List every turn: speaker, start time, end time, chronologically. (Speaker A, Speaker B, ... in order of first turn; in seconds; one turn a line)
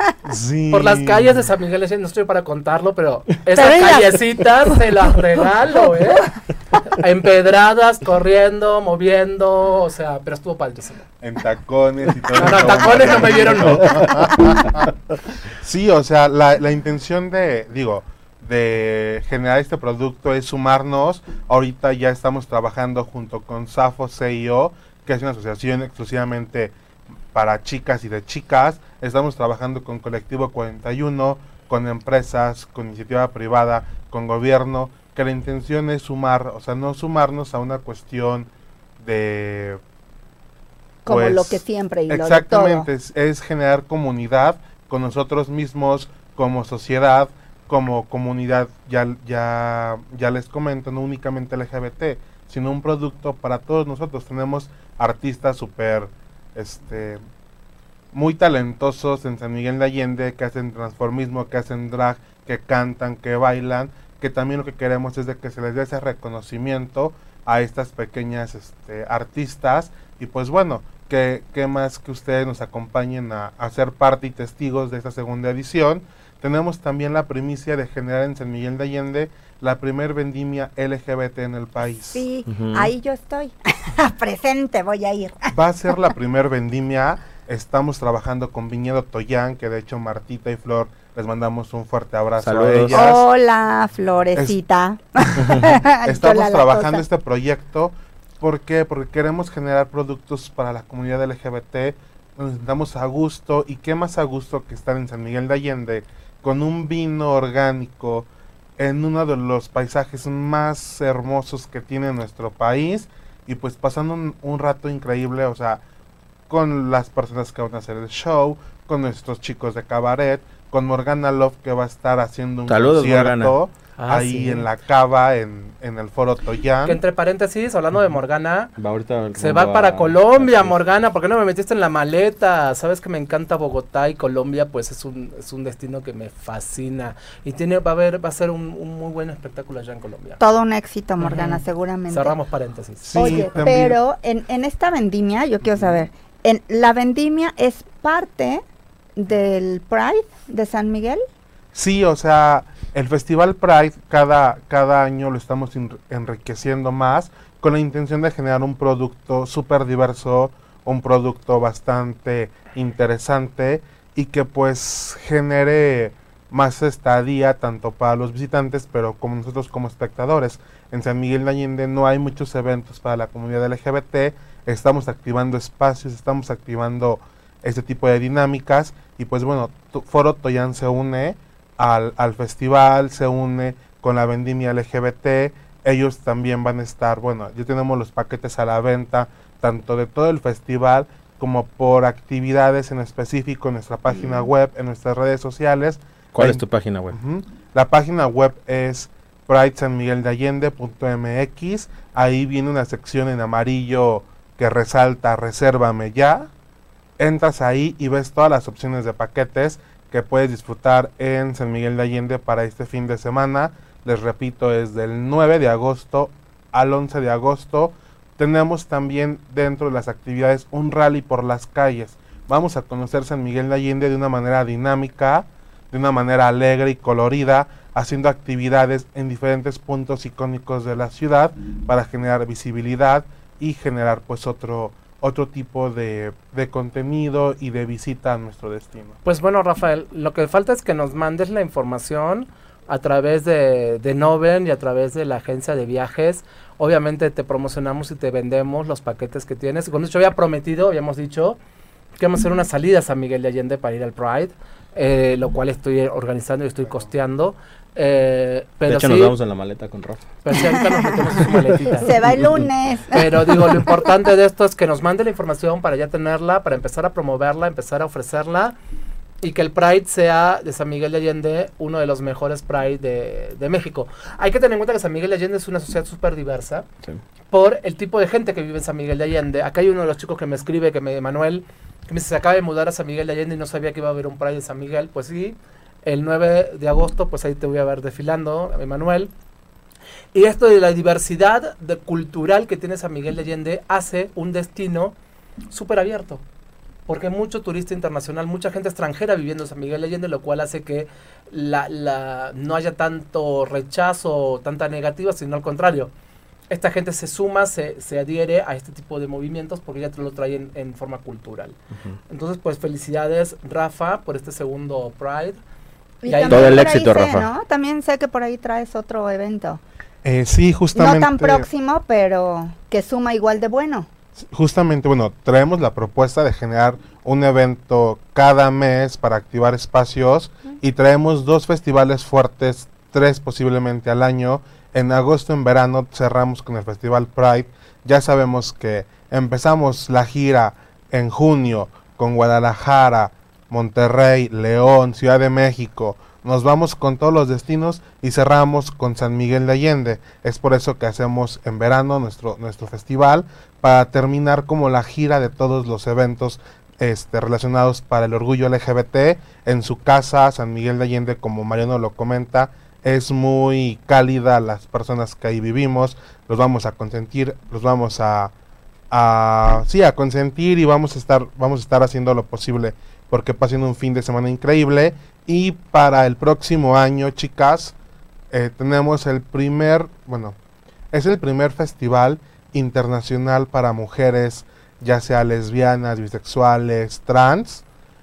Speaker A: 0.2-1.4
Speaker B: 0.7-6.3
Speaker C: 3.5-4.8
Speaker B: 6.9-11.0
Speaker A: 11.2-14.9
Speaker B: 12.3-14.3
Speaker A: 15.6-26.7
Speaker A: 27.3-39.8
Speaker C: 41.0-42.9
Speaker A: 41.0-57.2
Speaker A: 58.1-82.2
Speaker C: 82.1-85.5
Speaker D: 82.5-82.9
Speaker A: 85.5-93.2
Speaker D: 92.4-93.1
Speaker C: 92.9-97.0
Speaker D: 95.4-95.7
Speaker A: 96.0-115.8
Speaker A: 116.5-127.0
Speaker D: 122.7-123.5
Speaker B: 124.0-124.7
Speaker B: 126.8-128.7
Speaker D: 128.8-130.8
Speaker B: 129.3-140.4
Speaker C: 140.4-142.4
Speaker B: 141.2-143.7
Speaker A: 143.0-144.0
Speaker C: 143.1-148.6
Speaker C: 149.2-151.2
Speaker A: 151.7-206.5
Speaker D: 196.3-197.2
Speaker A: 207.2-239.2
Speaker B: 239.2-251.6
Speaker B: 252.2-259.3
Speaker D: 258.9-260.2
Speaker B: 260.4-262.1
Speaker C: 262.0-264.0
Speaker B: 263.1-268.7
Speaker B: 269.4-276.8
Speaker B: 277.5-289.3
Speaker B: 290.3-295.1
Speaker B: 295.7-296.4
Speaker B: 297.1-306.1
Speaker B: 306.7-311.8
Speaker B: 312.3-315.6
Speaker C: 316.2-319.8
Speaker B: 316.2-317.0
Speaker D: 316.5-317.5
Speaker A: 320.2-321.7
Speaker C: 320.9-324.1
Speaker A: 324.5-368.5
Speaker A: 369.1-377.9
Speaker A: 378.5-380.6
Speaker A: 381.1-387.8